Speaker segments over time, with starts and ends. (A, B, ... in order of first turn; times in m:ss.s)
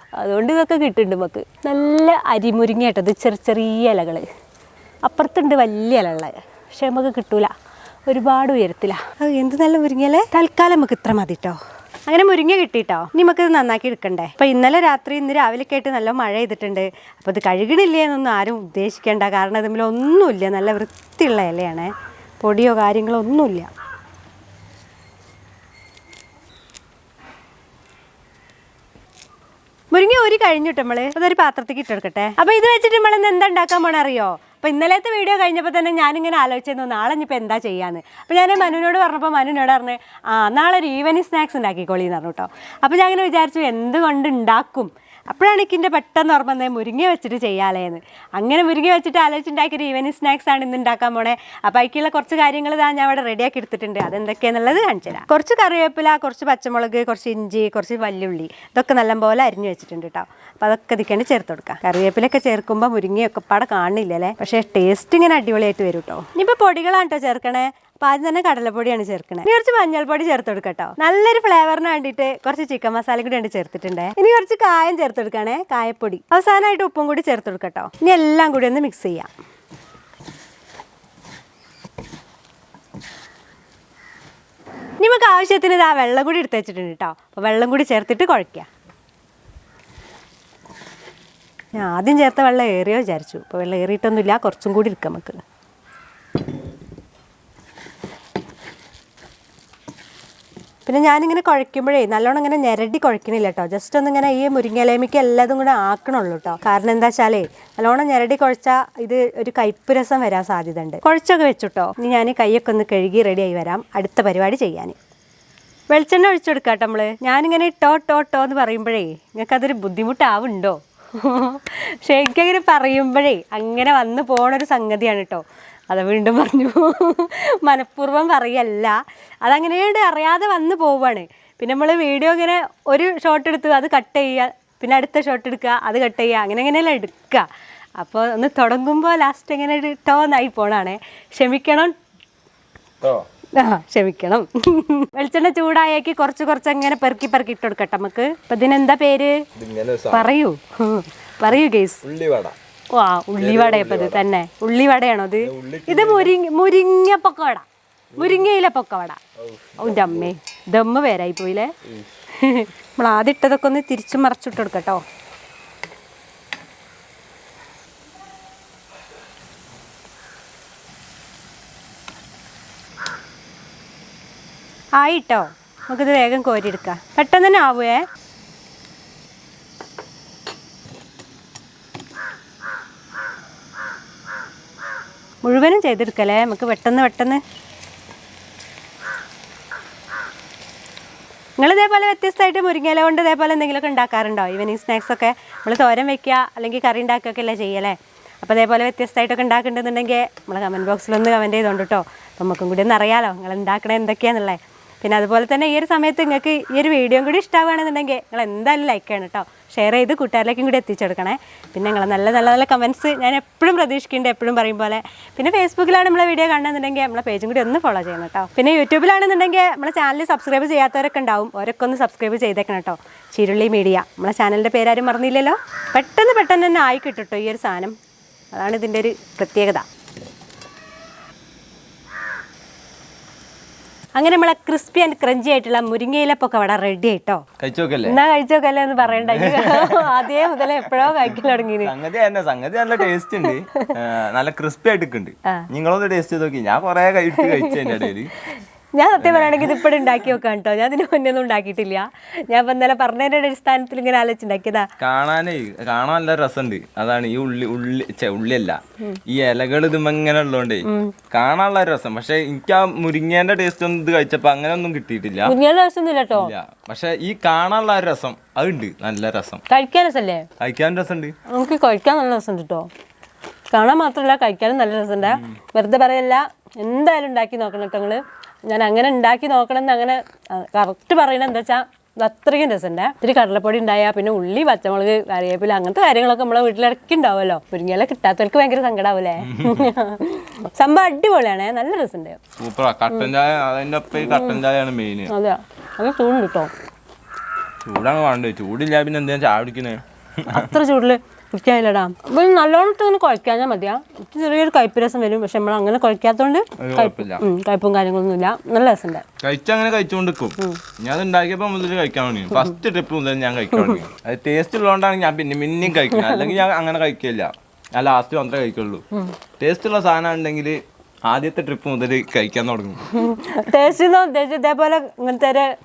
0:00.2-0:04.2 A
0:05.0-0:07.5 A
0:08.1-0:21.9 A
0:22.4-0:23.7 A
0:29.9-1:19.3 A
1:25.0-1:28.7 A
1:31.8-1:35.4 A
1:40.8-1:55.0 A
1:55.9-2:17.4 A
2:18.0-2:21.9 A
2:23.6-2:29.4 A
2:29.6-2:30.3 B
2:30.1-2:32.0 A
2:32.0-2:32.6 B
2:32.9-2:39.2 A
2:33.4-2:34.2 B
2:35.4-2:36.3 B
2:38.1-2:38.5 B
2:39.4-2:40.3 B
2:39.8-2:41.7 A
2:41.8-2:42.1 B
2:42.4-2:45.0 A
2:55.0-2:58.0 A
3:05.4-3:07.4 A
3:11.6-3:48.0 A
3:48.5-3:49.8 A
3:54.2-3:57.4 A
3:57.6-3:58.2 B
3:58.1-4:01.9 A
3:59.0-4:08.3 B
4:03.5-4:03.9 A
4:07.4-4:14.9 A
4:09.2-4:10.1 B
4:15.0-4:25.6 B
4:20.8-4:21.1 A
4:25.4-4:26.5 A
4:26.3-4:29.6 B
4:29.7-4:30.4 A
4:30.6-4:31.4 B
4:31.5-4:32.9 A
4:33.7-4:52.4 A
4:35.2-4:35.5 B
4:49.4-4:49.9 B
4:52.6-4:55.3 B
4:54.2-4:54.6 A
4:55.3-4:56.7 A
4:57.8-5:00.8 B
5:00.5-5:09.2 A
5:06.8-5:07.4 B
5:09.4-5:19.0 B
5:16.1-5:16.5 A
5:19.6-5:23.0 B
5:23.1-5:25.7 A